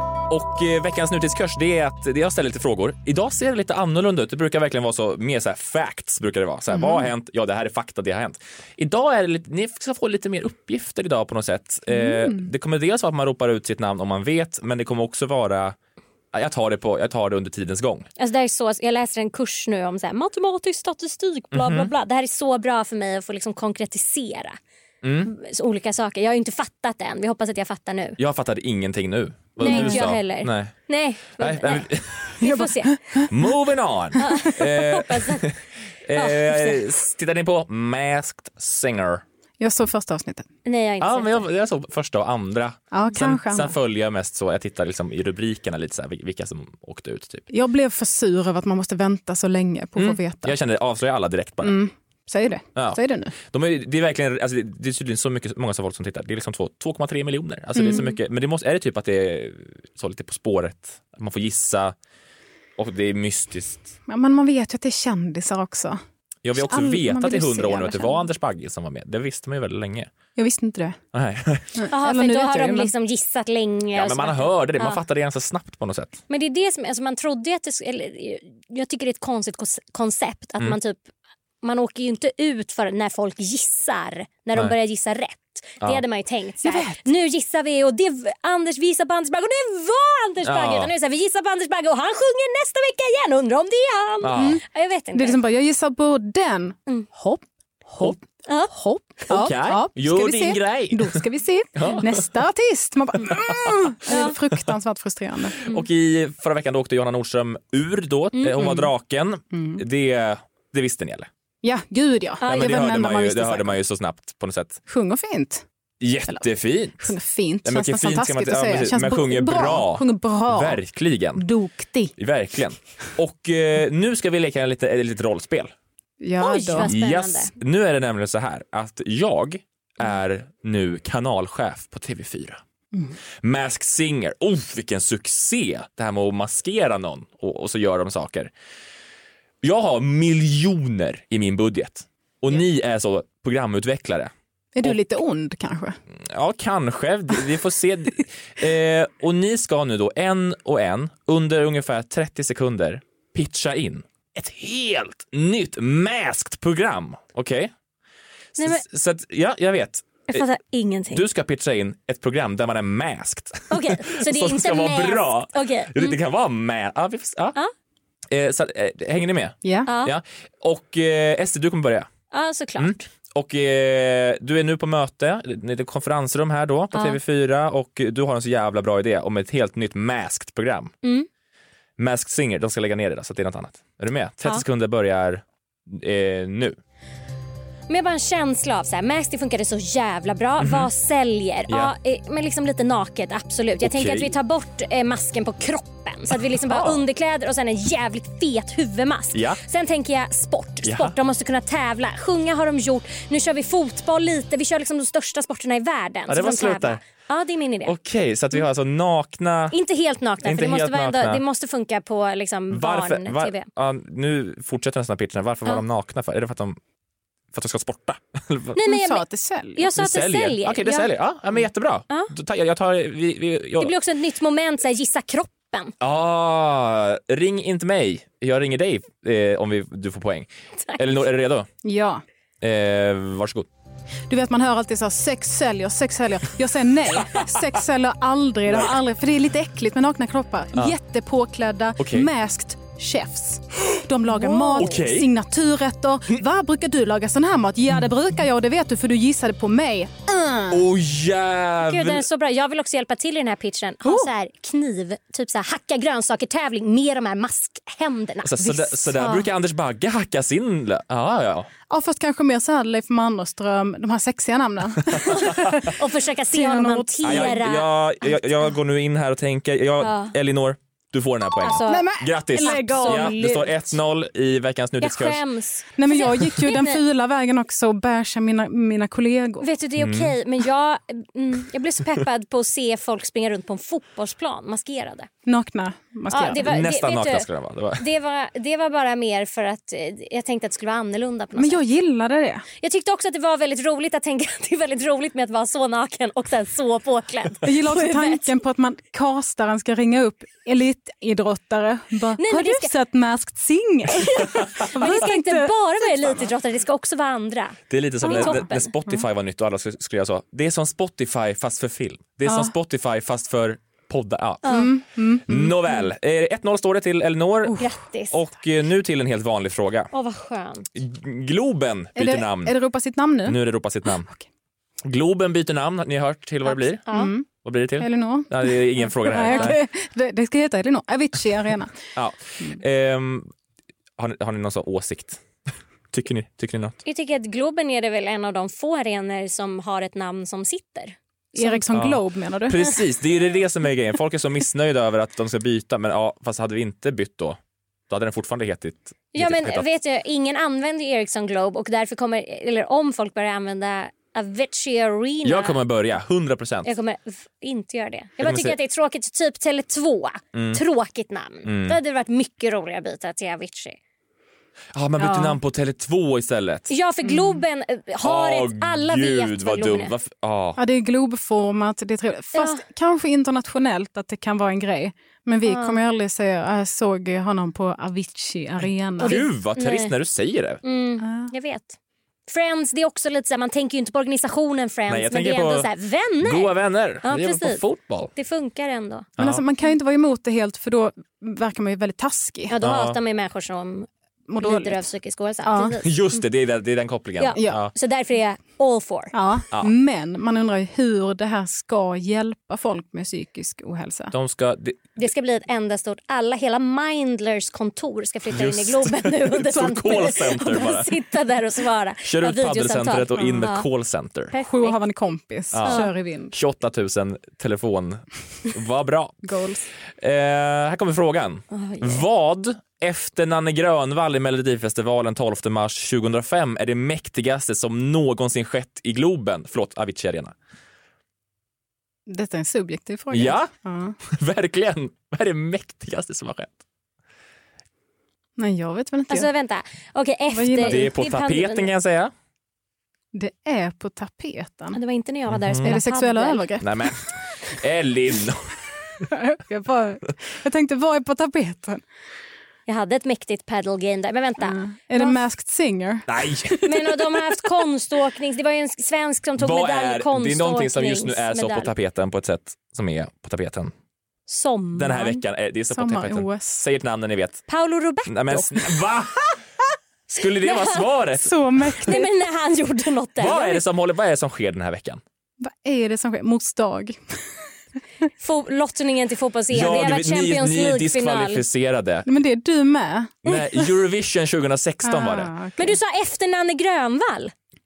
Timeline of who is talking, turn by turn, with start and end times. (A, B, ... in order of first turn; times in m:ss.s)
0:00.3-0:15.8 A
0:06.7-0:07.1 B
0:11.9-0:12.5 B
0:16.3-0:18.1 A
0:18.2-0:24.6 C
0:21.5-0:21.9 A
0:25.0-0:25.3 A
0:25.2-0:28.2 C
0:28.2-0:30.7 A
0:29.6-0:31.9 C
0:29.6-0:30.1 B
0:31.4-0:32.4 A
0:32.4-0:33.0 C
0:32.4-0:33.3 B
0:33.3-0:39.2 A
0:34.2-0:35.4 C
0:36.2-0:36.8 C
0:39.6-0:40.5 B
0:40.6-0:41.5 C
0:41.0-0:47.4 A
0:42.9-0:43.8 B
0:47.5-0:50.6 B
0:50.0-0:51.8 A
0:51.6-0:53.4 B
0:52.8-1:02.0 A
0:57.8-0:58.2 B
1:02.8-1:03.9 A
1:04.1-1:06.0 B
1:06.4-1:10.1 A
1:06.6-1:08.2 B
1:10.4-1:11.0 B
1:11.1-1:11.7 A
1:11.8-1:12.9 B
1:11.9-1:15.0 C
1:13.9-1:16.2 A
1:16.3-1:21.1 C
1:21.6-1:35.4 C
1:26.6-1:27.0 B
1:30.4-1:30.9 A
1:34.2-1:34.6 A
1:34.4-1:38.2 B
1:38.5-1:38.7 C
1:38.7-1:45.6 B
1:39.3-1:41.2 A
1:41.8-1:42.2 A
1:43.3-1:43.9 A
1:45.6-1:51.3 A
1:48.6-1:48.9 B
1:49.5-1:49.8 B
1:51.6-1:53.8 B
1:52.4-1:54.8 A
1:54.9-1:55.6 B
1:56.0-2:01.4 A
1:57.0-2:00.8 B
2:01.4-2:02.1 B
2:02.2-2:05.7 A
2:06.2-2:06.9 B
2:06.4-2:07.5 C
2:06.8-2:12.6 A
2:13.4-2:18.5 A
2:19.6-2:24.3 A
2:24.8-2:26.0 B
2:26.2-2:37.7 A
2:38.6-2:38.8 C
2:38.6-2:40.4 A
2:40.3-2:41.2 C
2:41.1-2:47.6 A
2:43.7-2:46.2 C
2:48.3-2:52.1 A
2:49.6-2:49.9 B
2:49.9-2:50.2 C
2:52.3-2:53.0 C
2:52.8-3:00.9 A
2:56.9-2:57.2 C
3:01.0-3:01.3 C
3:02.0-3:06.8 A
3:07.9-3:28.0 C
3:10.6-3:10.9 A
3:11.7-3:11.9 A
3:13.8-3:14.3 A
3:16.3-3:17.0 A
3:19.3-3:19.6 A
3:20.8-3:21.2 A
3:26.3-3:27.0 A
3:27.9-3:29.8 A
3:29.7-3:33.7 C
3:30.4-3:31.4 A
3:32.7-3:36.8 A
3:37.5-3:38.8 A
3:38.7-3:39.2 C
3:38.8-3:39.9 B
3:39.8-3:41.1 C
3:39.9-3:43.9 A
3:43.8-3:45.9 C
3:46.0-3:51.7 A
3:51.8-3:52.2 B
3:52.6-3:53.7 A
3:54.3-4:10.8 B
4:02.0-4:02.3 A
4:04.4-4:05.0 C
4:04.8-4:05.3 A
4:10.7-4:12.2 A
4:11.9-4:19.5 C
4:18.4-4:21.7 A
4:21.9-4:26.0 B
4:25.2-4:27.9 C
4:26.5-4:27.6 B
4:27.2-4:35.4 A
4:30.0-4:30.3 C
4:31.6-4:33.7 C
4:31.9-4:33.5 B
4:35.0-4:37.0 C
4:36.0-4:39.7 B
4:39.6-4:45.3 C
4:40.0-4:40.3 A
4:45.4-4:46.6 B
4:46.3-4:47.5 C
4:46.6-4:48.0 A
4:48.0-4:51.8 C
4:51.6-4:52.6 B
4:52.8-4:58.4 C
4:57.6-5:06.3 B
5:02.4-5:02.9 C
5:04.1-5:08.9 C
5:07.9-5:14.8 A
5:08.3-5:09.2 B
5:12.4-5:12.7 B
5:14.6-5:14.9 C
5:14.6-5:16.0 B
5:15.5-5:20.1 A
5:17.8-5:18.4 C
5:20.1-5:20.9 C
5:21.0-5:22.8 A
5:22.2-5:23.6 B
5:23.4-5:24.3 A
5:25.0-5:29.8 A
5:26.7-5:27.3 C
5:27.1-5:27.5 B
5:28.0-5:32.0 B
5:32.2-5:33.5 A
5:34.2-5:35.4 A
5:36.1-5:37.0 A
5:37.0-5:41.8 C
5:41.6-5:42.9 B
5:41.9-5:49.9 A
5:49.3-5:55.8 C
5:55.4-5:56.9 A
5:56.8-6:04.0 C
5:58.4-5:58.8 A
6:00.5-6:00.8 A
6:01.6-6:02.0 A
6:05.0-6:06.9 A
6:05.2-6:05.5 B
6:06.9-6:10.1 C
6:07.2-6:07.6 B
6:08.2-6:10.8 A
6:10.8-6:19.4 B
6:12.6-6:12.8 C
6:15.6-6:16.0 C
6:19.2-6:20.8 A
6:19.2-6:20.1 C
6:20.8-6:22.0 C
6:21.2-6:21.5 B
6:22.5-6:27.8 C
6:25.1-6:25.9 A
6:26.4-6:28.3 A
6:28.3-6:29.3 C
6:29.4-6:29.6 A
6:29.4-6:32.7 B
6:32.7-6:34.1 C
6:32.8-6:33.2 A
6:34.5-6:35.1 B
6:34.6-6:36.4 C
6:35.6-6:36.0 B
6:36.0-6:37.9 A
6:37.4-6:39.3 C
6:37.6-6:37.8 B
6:39.3-6:44.3 B
6:44.3-6:45.1 A
6:45.2-6:53.9 C
6:48.5-6:51.1 A
6:52.2-6:54.5 A
6:54.5-6:55.0 C
6:54.6-6:56.5 B
6:55.7-6:59.4 A
6:55.8-6:56.1 C
6:59.4-6:59.9 B
7:00.2-7:10.5 A
7:01.7-7:02.2 C
7:12.3-7:14.2 B
7:13.3-7:13.7 A
7:14.3-7:16.8 A
7:18.6-7:19.5 B
7:19.3-7:21.9 C
7:20.5-7:21.1 B
7:20.8-7:22.3 A
7:23.3-7:25.0 B
7:24.9-7:26.6 C
7:25.5-7:26.0 A
7:25.8-7:27.1 B
7:26.8-7:28.8 A
7:29.3-7:32.0 B
7:32.9-7:35.4 C
7:34.6-7:37.2 B
7:36.3-7:36.8 A
7:36.8-7:41.9 C
7:39.6-7:43.9 A
7:44.5-7:45.4 C
7:45.0-7:47.6 A
7:45.9-7:46.9 B
7:47.7-7:48.8 C
7:48.3-7:49.5 A
7:50.3-7:51.5 A
7:50.6-7:51.1 C
7:51.4-7:52.3 B
7:52.0-7:53.8 C
7:53.4-7:55.2 A
7:55.6-7:57.2 B
7:58.4-8:01.6 C
7:59.7-8:02.3 A
8:02.3-8:03.5 B
8:03.4-8:05.5 A
8:05.0-8:06.0 B
8:05.8-8:07.5 C